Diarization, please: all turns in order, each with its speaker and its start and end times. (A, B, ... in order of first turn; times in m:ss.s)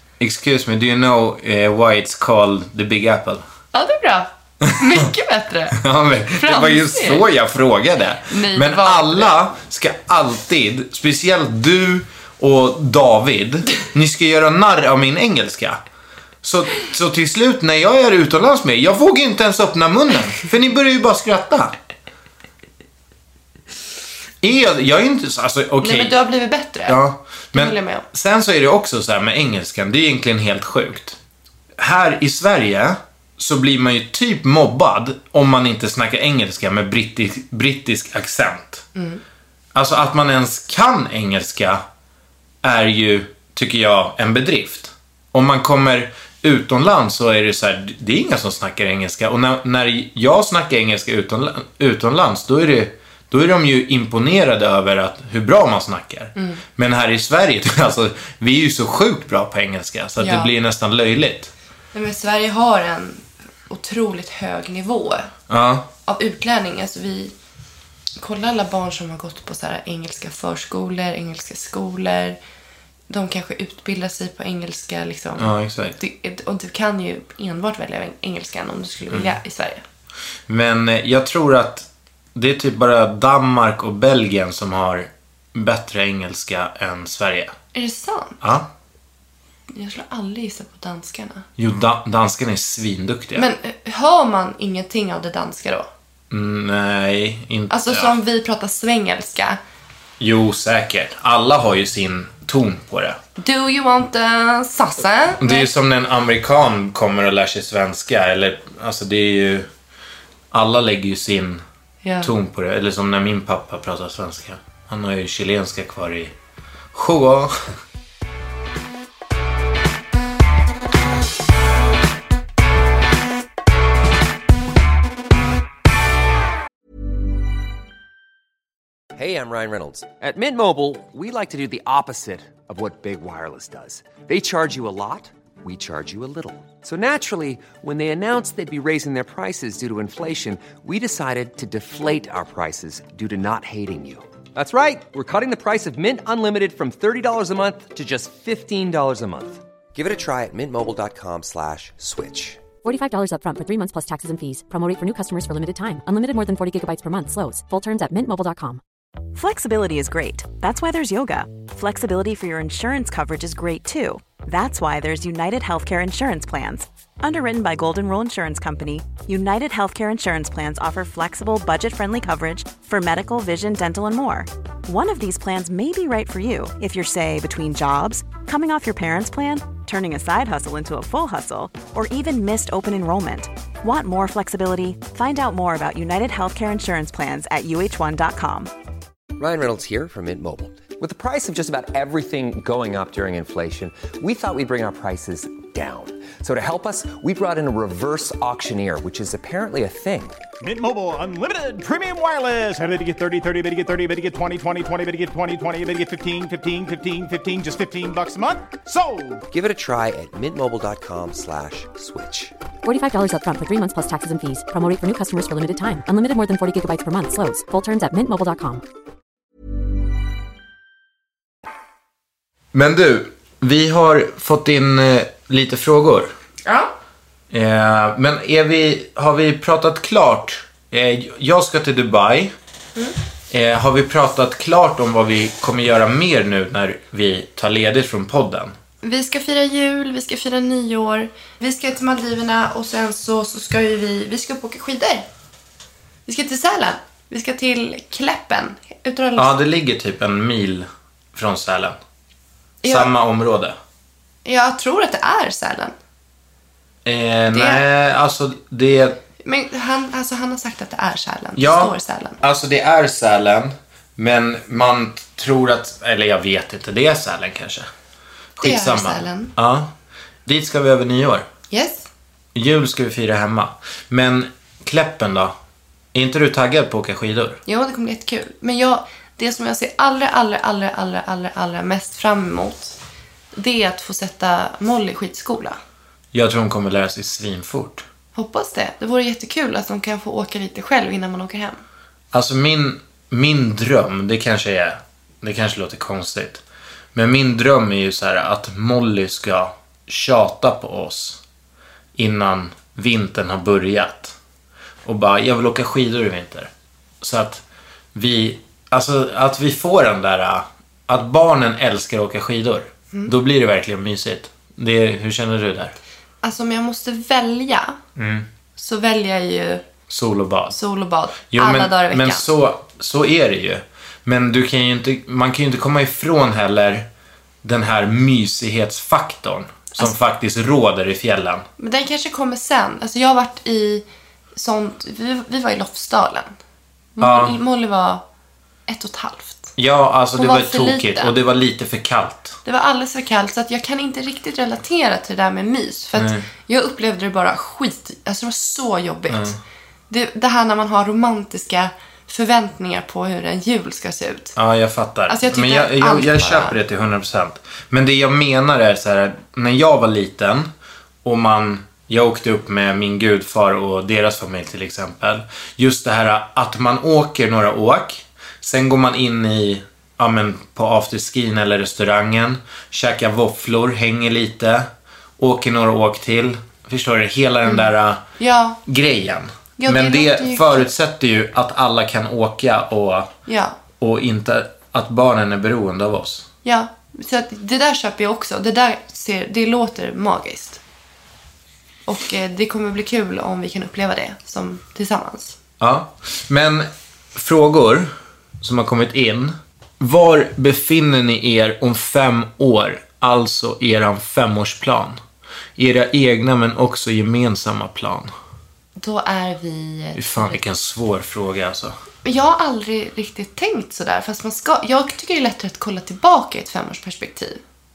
0:00.2-0:03.4 A
0:03.7-0:05.8 B
0:04.6-0:05.1 A
0:05.8-0:15.8 A
0:06.4-0:07.2 B
0:08.3-0:09.4 B
0:16.4-0:21.8 A
0:24.4-0:26.2 A
0:25.8-0:27.0 B
0:26.9-0:31.2 A
0:27.5-0:28.1 B
0:31.8-0:38.9 A
0:39.0-0:39.2 B
0:39.7-0:41.8 A
0:42.6-1:01.5 A
1:00.2-1:00.5 B
1:01.9-1:05.3 B
1:05.5-1:05.9 A
1:06.1-1:07.3 B
1:08.2-1:12.4 B
1:13.1-1:19.8 B
1:15.4-1:16.0 A
1:19.1-1:19.4 A
1:20.5-1:27.5 A
1:27.7-1:28.4 B
1:28.4-1:28.7 A
1:29.7-1:31.5 B
1:31.6-1:33.5 A
1:33.4-1:35.9 B
1:36.3-1:38.2 A
1:37.7-1:39.6 B
1:40.2-1:43.2 A
1:43.4-1:45.7 B
1:45.4-1:49.7 A
1:50.5-1:51.6 A
1:52.0-1:52.3 B
1:52.2-1:56.4 A
1:56.9-1:57.5 A
2:09.2-2:32.6 C
2:32.8-2:38.8 D
2:39.4-3:08.7 E
3:09.4-3:20.4 C
3:20.6-3:29.4 F
3:29.5-3:32.5 C
3:32.8-3:38.8 D
3:42.7-3:46.3 A
3:46.6-3:46.9 B
3:47.5-3:52.5 A
3:53.5-3:58.8 A
3:59.0-4:05.3 B
4:06.3-4:09.5 B
4:09.4-4:12.0 A
4:12.8-4:13.1 B
4:12.8-4:13.8 A
4:14.4-4:16.0 B
4:17.0-4:19.2 A
4:17.5-4:17.8 B
4:19.4-4:22.4 B
4:21.6-4:27.9 A
4:28.6-4:29.9 A
4:28.6-4:29.5 B
4:30.5-4:31.5 A
4:31.7-4:32.1 B
4:32.6-4:35.5 A
4:36.1-4:37.6 A
4:37.7-4:43.0 B
4:43.6-4:45.8 B
4:46.3-4:48.0 A
4:48.4-4:51.8 B
4:52.3-4:56.6 A
4:57.1-5:01.4 A
5:02.2-5:04.4 A
5:05.0-5:06.7 A
5:07.2-5:16.0 A
5:16.4-5:18.0 B
5:18.2-5:18.5 A
5:18.8-5:19.8 B
5:20.1-5:20.8 A
5:20.7-5:22.5 B
5:21.5-5:27.1 A
5:27.6-5:31.7 A
5:31.8-5:34.0 B
5:34.6-5:36.6 B
5:37.2-5:38.2 B
5:37.2-5:37.6 A
5:38.9-5:39.7 B
5:39.8-5:42.6 A
5:40.4-5:41.3 B
5:42.6-5:49.6 B
5:46.2-5:46.5 A
5:49.3-5:49.6 A
5:50.1-5:54.6 B
5:54.6-6:00.7 A
5:55.3-5:56.8 B
6:01.2-6:18.2 A
6:17.6-6:18.8 B
6:18.9-6:23.3 A
6:19.8-6:20.8 B
6:23.5-6:23.8 B
6:24.0-6:26.5 A
6:26.6-6:30.8 B
6:32.1-6:35.6 B
6:35.8-6:45.2 A
6:45.8-6:48.3 A
6:49.0-6:50.6 B
6:50.2-6:52.0 A
6:52.2-6:57.6 B